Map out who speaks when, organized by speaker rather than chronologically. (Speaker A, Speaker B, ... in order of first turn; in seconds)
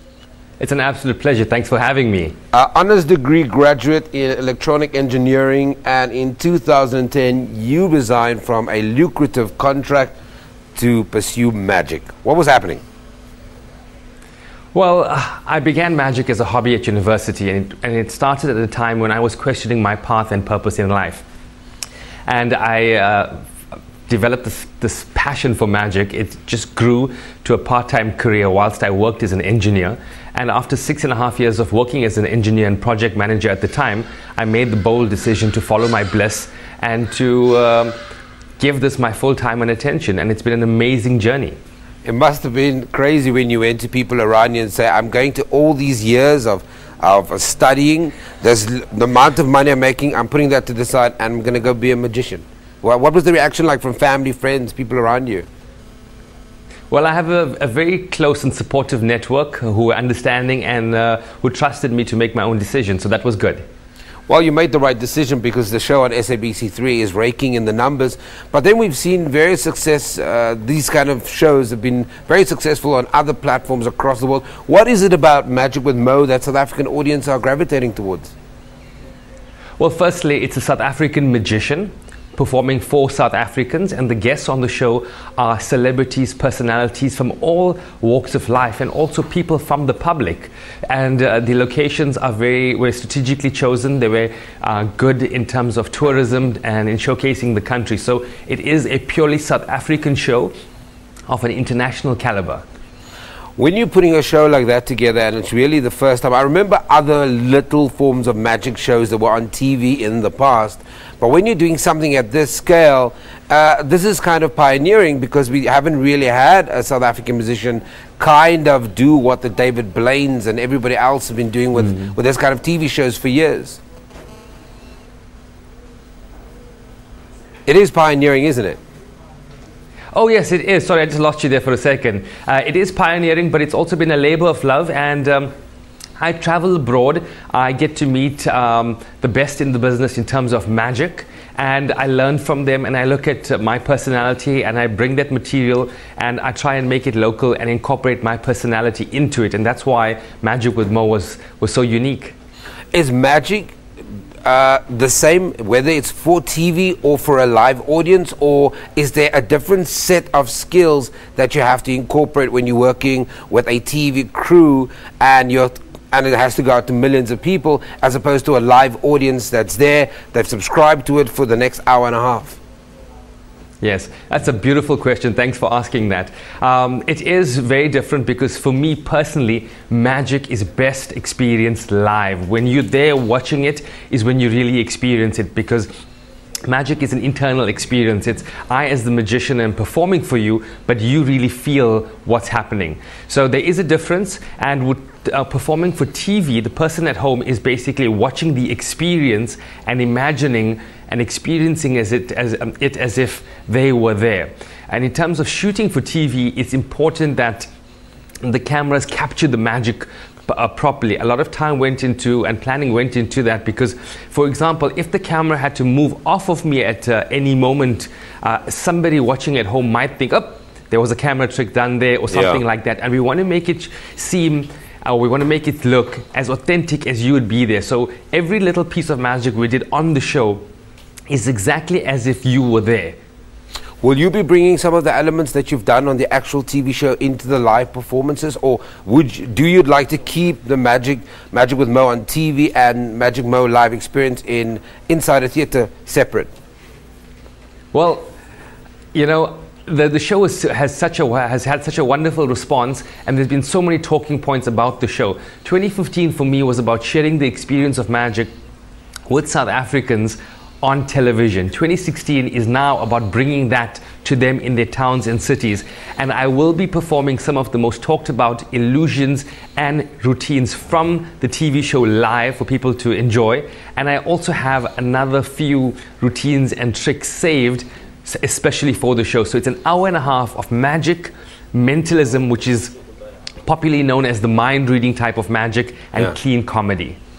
Speaker A: 0.6-2.4, 14.7-21.2, 22.3-23.4, 24.1-38.0, 38.6-41.6, 56.9-63.6, 79.8-100.5, 101.3-102.7, 130.1-135.5, 136.2-152.3, 173.8-185.9, 186.7-207.7, 208.4-230.6, 231.3-233.2, 247.9-248.3, 249.1-258.5, 259.3-282.9, 283.6-287.2
Speaker B: 2.5-10.1, 10.8-12.8, 42.0-55.5, 64.3-78.3, 103.6-123.8, 127.7-128.8, 152.9-153.8, 154.4-172.6, 222.3-222.6, 234.0-246.5